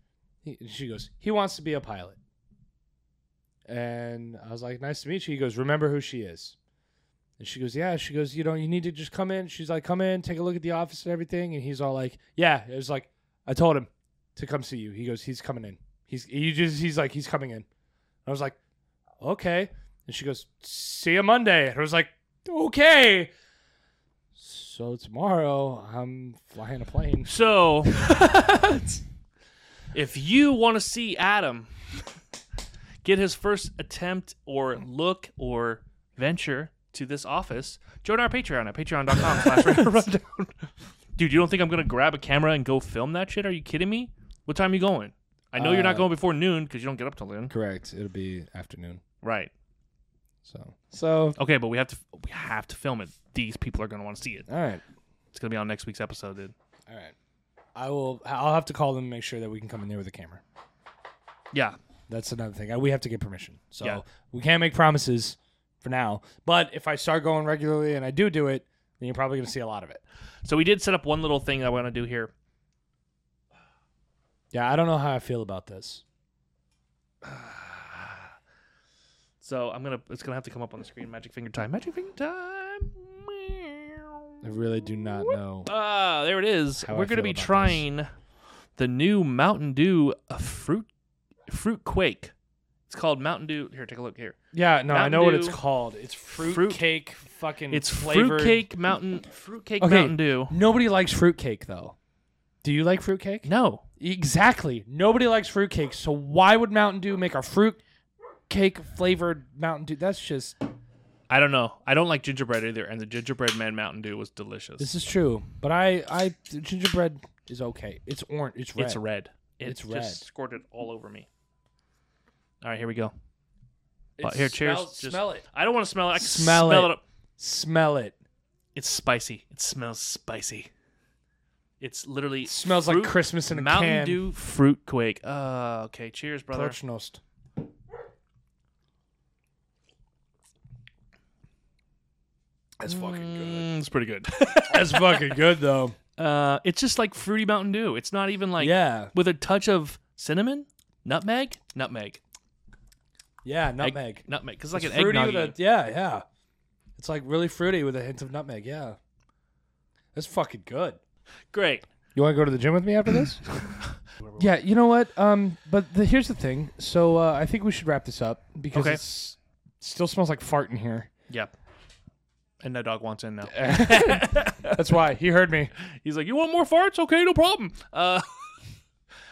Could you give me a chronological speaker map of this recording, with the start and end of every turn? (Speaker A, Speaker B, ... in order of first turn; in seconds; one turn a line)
Speaker A: 0.4-2.2
Speaker A: 3.6-6.5
Speaker A: 7.4-17.6
Speaker A: 18.2-18.6
Speaker A: 19.2-23.3
Speaker A: 24.4-27.3
Speaker B: 27.2-28.3
Speaker A: 27.9-29.0
Speaker B: 29.9-31.7
Speaker B: 33.0-47.5
Speaker A: 39.3-39.8
Speaker A: 45.5-46.1
Speaker A: 47.5-49.0
Speaker B: 49.2-49.5
Speaker A: 50.4-51.4
Speaker B: 51.4-54.5
Speaker A: 54.5-54.8
Speaker B: 55.3-56.5
Speaker A: 56.9-57.1
Speaker A: 57.8-60.4
Speaker A: 62.1-70.0
Speaker B: 70.4-72.3
Speaker A: 74.5-76.0
Speaker B: 79.4-84.3
Speaker A: 84.4-85.7
Speaker B: 85.2-88.1
Speaker A: 86.8-87.8
Speaker B: 88.8-90.9
Speaker B: 91.5-92.3
Speaker B: 92.9-94.4
Speaker A: 94.5-98.7
Speaker B: 94.9-95.6
Speaker B: 96.4-96.8
Speaker B: 97.7-100.6
Speaker A: 99.8-102.0
Speaker A: 102.6-103.5
Speaker B: 103.4-103.8
Speaker A: 104.0-107.8
Speaker A: 108.5-110.5
Speaker B: 111.3-114.9
Speaker A: 114.8-119.0
Speaker B: 118.8-121.3
Speaker A: 119.6-120.2
Speaker B: 122.6-123.1
Speaker A: 124.2-125.4
Speaker B: 124.2-127.0
Speaker A: 126.1-128.2
Speaker B: 128.7-130.7
Speaker B: 131.8-136.8
Speaker A: 132.4-134.3
Speaker A: 136.5-137.2
Speaker A: 142.8-143.7
Speaker B: 142.8-145.3
Speaker A: 144.7-145.9
Speaker B: 146.2-152.2
Speaker A: 148.6-149.1
Speaker A: 153.4-156.2
Speaker B: 153.8-155.6
Speaker A: 156.9-159.0
Speaker A: 160.1-161.0
Speaker B: 161.5-161.9
Speaker A: 162.1-163.4
Speaker B: 163.8-164.4
Speaker A: 164.4-171.1
Speaker B: 168.7-169.0
Speaker B: 172.6-174.8
Speaker A: 173.5-175.7
Speaker B: 175.8-178.5